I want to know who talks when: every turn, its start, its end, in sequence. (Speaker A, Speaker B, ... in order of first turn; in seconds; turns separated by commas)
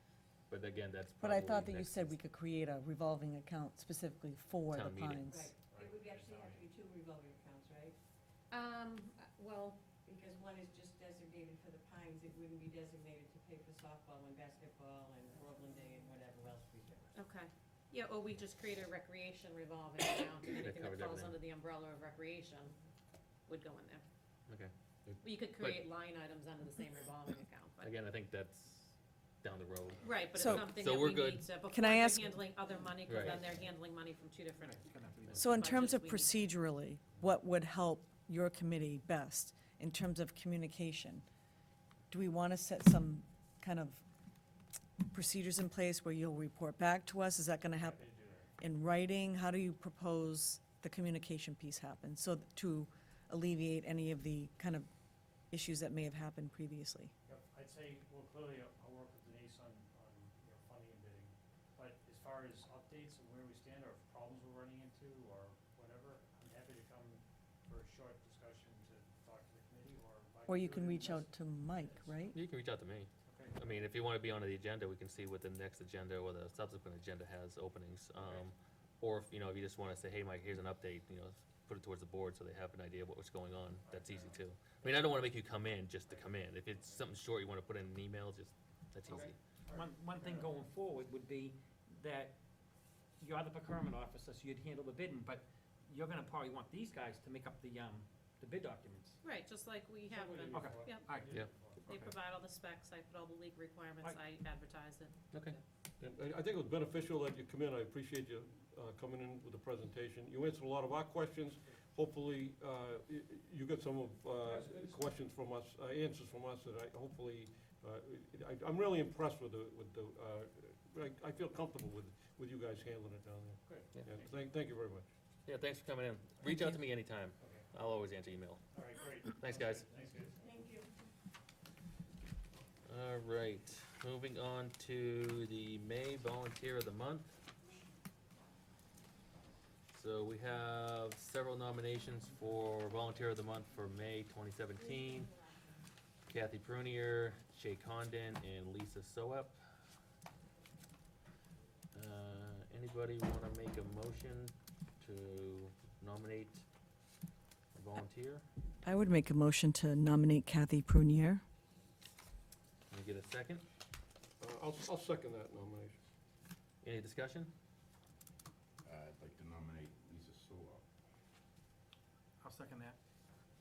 Speaker A: 0.5-2.1, Speaker B: 1.2-5.5, Speaker A: 4.7-5.3, Speaker C: 5.2-8.0, Speaker D: 5.7-6.6, Speaker E: 8.5-9.8, Speaker C: 10.0-17.1, Speaker E: 17.1-22.8, Speaker A: 20.6-21.3, Speaker E: 23.5-24.1, Speaker E: 25.2-27.9, Speaker A: 25.6-25.9, Speaker A: 27.8-31.5, Speaker E: 30.0-36.4, Speaker B: 30.3-30.7, Speaker B: 31.7-32.4, Speaker A: 33.0-33.4, Speaker F: 33.1-33.4, Speaker F: 34.6-35.7, Speaker B: 35.4-41.2, Speaker B: 42.1-44.0, Speaker B: 45.0-54.9, Speaker D: 47.7-48.5, Speaker B: 55.5-57.1, Speaker D: 57.3-72.2, Speaker B: 70.5-72.4, Speaker A: 72.3-89.3, Speaker D: 73.2-73.8, Speaker D: 78.2-78.5, Speaker D: 83.8-85.5, Speaker D: 86.0-87.1, Speaker D: 89.0-90.6, Speaker F: 89.7-92.4, Speaker F: 93.2-99.2, Speaker E: 99.2-105.2, Speaker D: 100.1-101.9, Speaker F: 100.5-101.3, Speaker A: 105.3-105.6, Speaker G: 106.0-125.1, Speaker D: 114.4-115.0, Speaker D: 123.6-124.6, Speaker A: 125.5-128.6, Speaker D: 126.4-126.8, Speaker D: 127.4-127.7, Speaker D: 128.7-130.7, Speaker A: 129.3-129.8, Speaker C: 130.4-130.9, Speaker A: 132.8-137.4, Speaker A: 139.9-145.4, Speaker A: 146.3-149.6, Speaker A: 151.9-156.6, Speaker A: 157.7-158.4, Speaker B: 158.8-161.4, Speaker A: 162.9-163.6, Speaker G: 164.4-165.9, Speaker A: 166.8-167.5, Speaker H: 168.8-170.8, Speaker F: 172.4-173.0